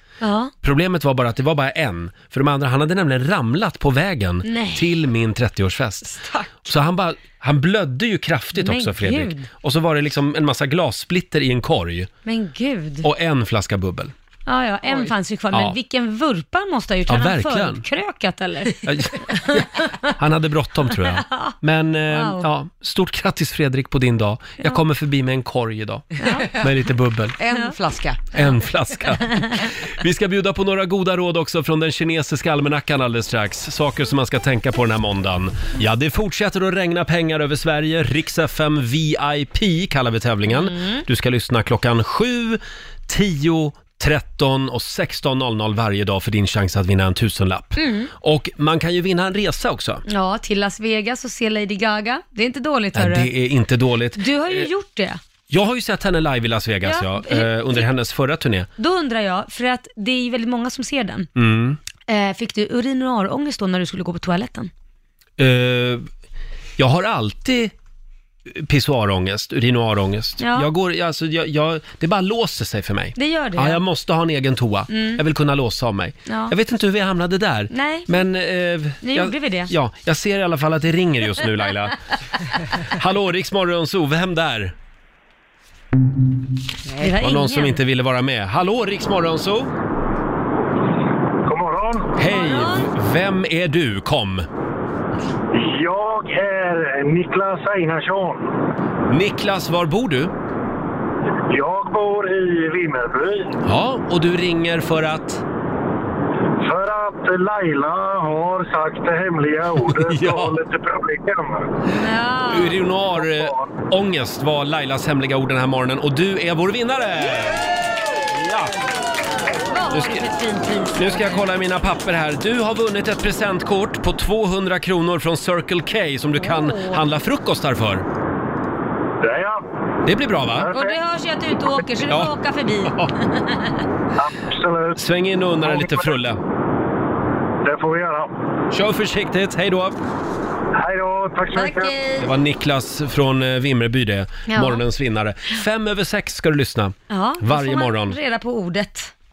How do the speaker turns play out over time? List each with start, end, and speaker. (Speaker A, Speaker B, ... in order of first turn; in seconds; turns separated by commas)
Speaker A: 0.2-0.5, Speaker B: 0.6-6.1, Speaker A: 4.4-4.9, Speaker C: 6.0-6.6, Speaker B: 6.6-12.1, Speaker A: 8.5-9.5, Speaker A: 12.2-13.1, Speaker B: 13.0-14.1, Speaker A: 14.5-20.1, Speaker C: 14.9-15.1, Speaker B: 17.1-17.8, Speaker B: 18.8-19.6, Speaker B: 20.1-27.4, Speaker A: 21.2-21.5, Speaker A: 22.1-22.4, Speaker A: 26.2-26.5, Speaker C: 26.2-26.7, Speaker C: 27.4-28.4, Speaker B: 28.3-50.0, Speaker A: 29.3-29.6, Speaker A: 40.5-41.0, Speaker A: 47.8-48.1, Speaker A: 50.1-53.3, Speaker B: 52.9-54.7, Speaker A: 54.2-55.2, Speaker B: 55.5-58.7, Speaker A: 56.8-57.9, Speaker A: 58.8-61.3, Speaker B: 61.4-61.8, Speaker A: 62.1-64.7, Speaker B: 65.4-66.0, Speaker B: 66.8-67.7, Speaker B: 68.5-82.0, Speaker A: 70.4-70.7, Speaker A: 73.2-73.8, Speaker A: 74.9-75.2, Speaker A: 76.3-76.5, Speaker A: 77.7-78.2, Speaker A: 79.0-79.7, Speaker B: 82.8-84.7, Speaker C: 86.8-87.2, Speaker A: 87.0-87.8, Speaker B: 87.2-89.7, Speaker D: 91.5-92.2, Speaker B: 92.2-94.5, Speaker A: 92.3-92.9, Speaker D: 95.5-98.5, Speaker B: 99.1-100.3, Speaker D: 101.5-103.6, Speaker B: 103.6-105.4, Speaker D: 106.6-111.7, Speaker B: 109.9-110.6, Speaker A: 111.8-112.8, Speaker B: 112.5-117.7, Speaker D: 113.2-113.7, Speaker B: 118.3-118.7, Speaker A: 119.7-121.5, Speaker B: 119.9-120.3, Speaker B: 121.0-128.1, Speaker A: 126.4-127.0, Speaker D: 129.2-129.6, Speaker B: 130.0-130.7, Speaker D: 130.5-130.9, Speaker A: 130.7-133.8, Speaker B: 132.1-132.3, Speaker B: 132.9-133.1, Speaker D: 134.2-135.0, Speaker B: 134.9-136.4, Speaker D: 135.6-136.1, Speaker D: 137.6-138.5, Speaker B: 138.7-140.0, Speaker D: 140.8-141.9, Speaker A: 141.5-142.3, Speaker B: 142.2-148.2, Speaker A: 144.5-144.8, Speaker A: 147.1-149.1